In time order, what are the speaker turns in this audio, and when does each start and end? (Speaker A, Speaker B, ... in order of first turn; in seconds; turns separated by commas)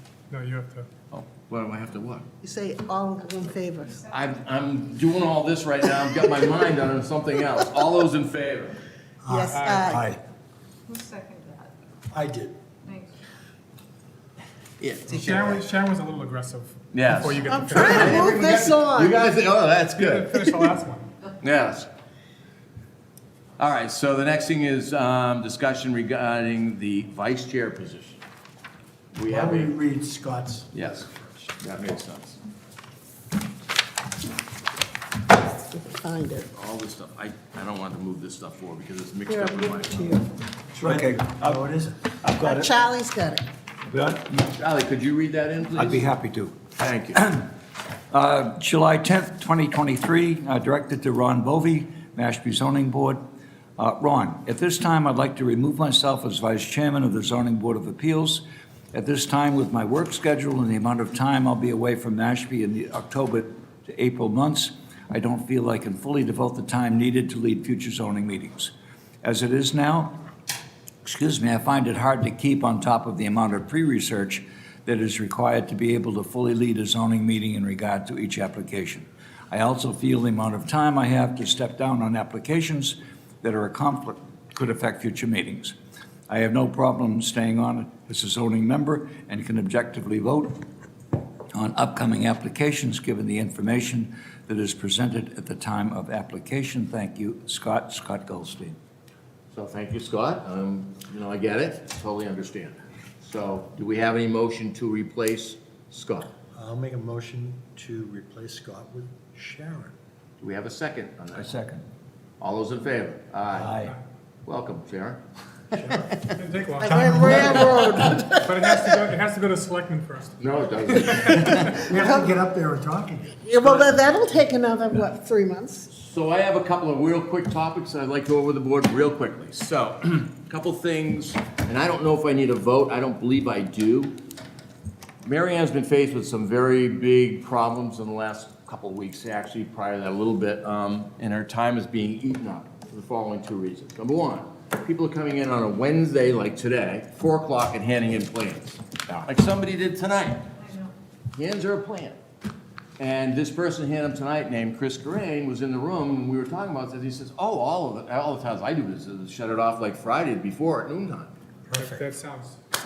Speaker A: 0.3-0.9, Speaker B: 1.1-2.3, Speaker C: 2.4-4.0, Speaker B: 4.1-8.8, Speaker D: 9.2-10.2, Speaker C: 9.3-10.0, Speaker A: 9.5-9.9, Speaker D: 12.1-12.5, Speaker B: 14.8-15.6, Speaker A: 15.1-18.7, Speaker B: 16.9-20.7, Speaker C: 17.5-19.1, Speaker A: 19.9-21.1, Speaker B: 21.4-21.9, Speaker B: 23.6-28.2, Speaker B: 29.1-29.8, Speaker D: 29.3-31.4, Speaker B: 30.7-32.4, Speaker C: 35.5-36.5, Speaker B: 36.5-40.2, Speaker C: 39.3-40.1, Speaker E: 40.8-42.7, Speaker D: 40.8-42.0, Speaker C: 42.5-43.4, Speaker E: 43.8-44.5, Speaker B: 44.5-46.0, Speaker E: 45.7-46.5, Speaker B: 46.7-47.3, Speaker E: 47.1-47.5, Speaker E: 48.1-53.2, Speaker E: 53.8-70.2, Speaker E: 71.0-85.7, Speaker E: 86.3-90.6, Speaker E: 91.5-98.8, Speaker B: 99.5-106.3, Speaker D: 106.5-109.9, Speaker B: 110.4-111.5, Speaker E: 111.3-111.8, Speaker B: 112.4-113.8, Speaker E: 113.5-113.9, Speaker B: 114.5-115.2, Speaker B: 115.7-116.3, Speaker D: 115.8-116.2, Speaker A: 116.3-121.8, Speaker C: 116.8-118.5, Speaker D: 116.8-118.2, Speaker B: 117.3-118.0, Speaker B: 120.4-121.6, Speaker D: 121.5-123.9, Speaker C: 121.8-122.3, Speaker C: 123.4-125.8, Speaker B: 125.9-134.1, Speaker B: 135.2-150.5, Speaker B: 151.3-152.2, Speaker B: 153.0-161.3, Speaker D: 161.7-162.0, Speaker A: 161.7-162.6